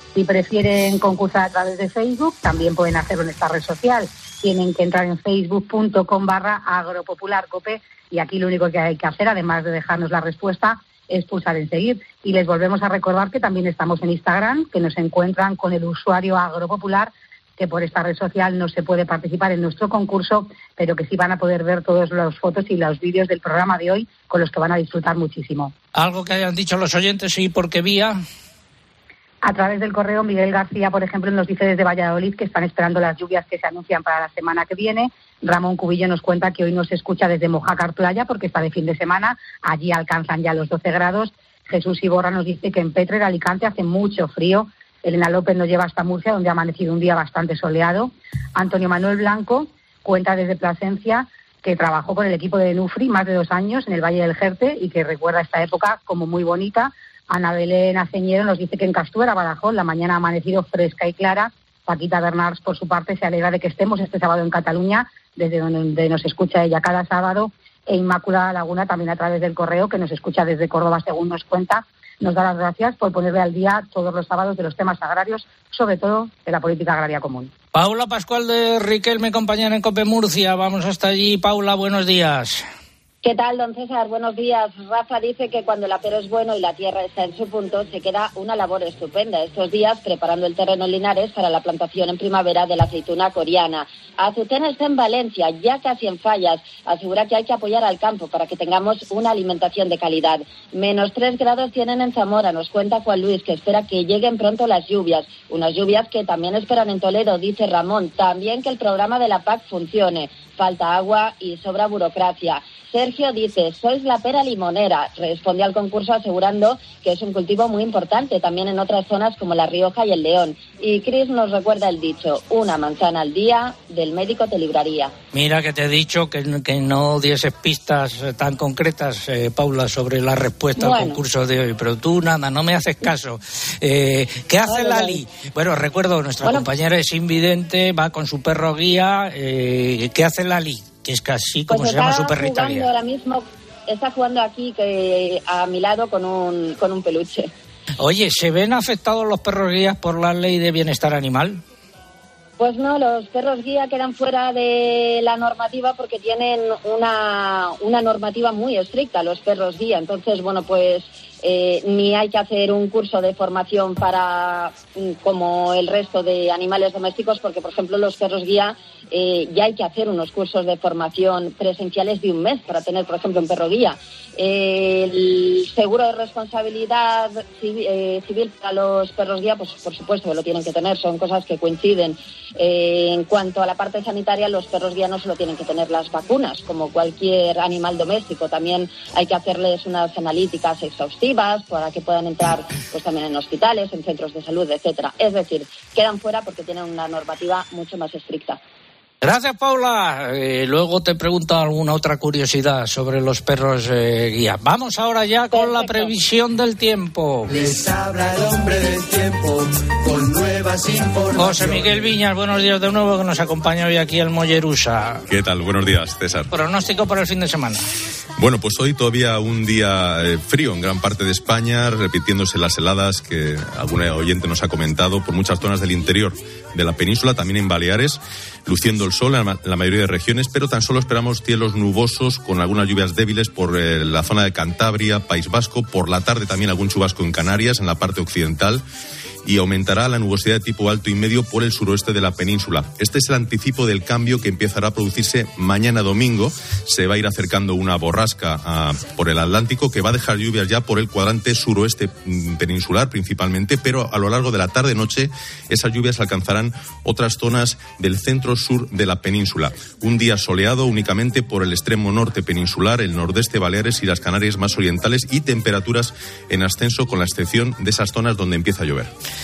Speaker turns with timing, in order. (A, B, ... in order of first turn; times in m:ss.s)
0:00.2-0:25.7 A
0:26.0-0:28.2 B
0:29.4-1:17.5 A
1:17.7-1:22.6 B
1:23.2-2:05.1 C
2:05.3-2:22.9 B
2:10.8-2:11.2 C
2:14.7-2:15.1 C
2:21.7-2:27.5 C
2:28.0-2:31.6 B
2:32.6-3:18.6 C
3:19.2-3:27.6 B
3:25.5-3:26.1 C
3:27.6-3:29.5 D
3:30.1-3:31.7 D
3:31.4-3:35.2 B
3:35.3-3:36.5 E
3:36.5-3:37.8 B
3:38.4-3:58.8 E
3:59.4-4:29.1 E